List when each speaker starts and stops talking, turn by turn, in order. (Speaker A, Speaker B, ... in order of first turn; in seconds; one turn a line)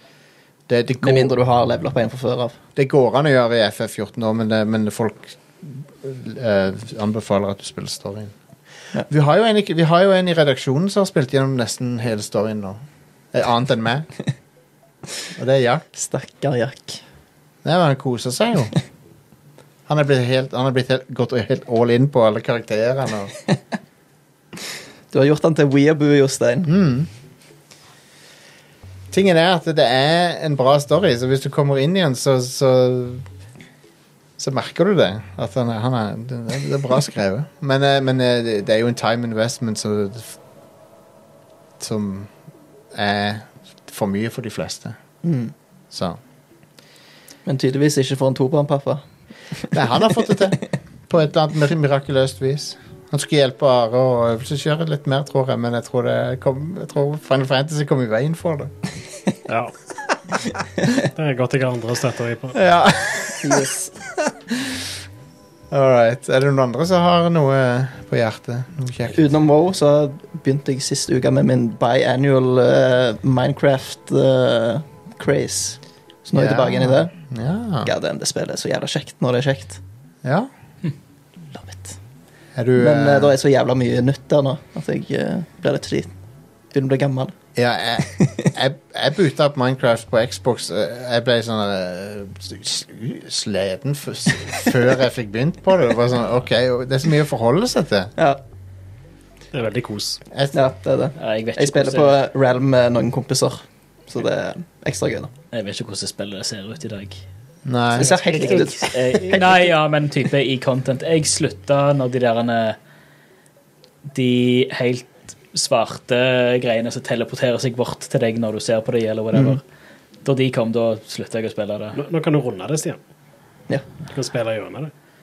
Speaker A: 0.7-1.3
Speaker B: 1.0-2.6
Speaker A: 2.8-8.3
Speaker A: 9.0-12.8
Speaker A: 13.3-14.1
Speaker A: 15.4-15.8
Speaker B: 15.9-17.0
Speaker A: 17.6-18.7
Speaker A: 19.9-23.4
Speaker B: 25.1-26.7
Speaker A: 26.6-27.1
Speaker A: 29.1-33.2
Speaker A: 34.4-40.4
Speaker A: 41.8-42.3
Speaker A: 42.9-45.0
Speaker B: 45.2-45.5
Speaker A: 45.9-46.2
Speaker B: 47.5-49.0
Speaker A: 49.7-58.7
Speaker C: 59.5-59.7
Speaker C: 61.0-62.6
Speaker A: 62.5-63.7
Speaker B: 63.4-63.9
Speaker A: 64.3-64.8
Speaker A: 65.7-69.3
Speaker B: 69.1-77.1
Speaker A: 76.3-77.9
Speaker B: 77.8-79.8
Speaker A: 80.2-80.5
Speaker B: 81.5-82.0
Speaker A: 82.5-83.4
Speaker B: 82.8-86.1
Speaker B: 86.7-87.3
Speaker A: 87.6-98.1
Speaker B: 88.1-88.5
Speaker C: 99.5-100.2
Speaker A: 100.3-100.7
Speaker B: 100.5-105.3
Speaker D: 101.2-102.2
Speaker D: 105.5-107.2
Speaker A: 107.7-108.2
Speaker B: 107.9-109.7
Speaker D: 108.0-112.8
Speaker C: 108.3-108.7
Speaker D: 114.1-119.6
Speaker B: 119.3-119.6
Speaker D: 120.2-122.0
Speaker C: 121.9-123.0
Speaker C: 124.1-124.9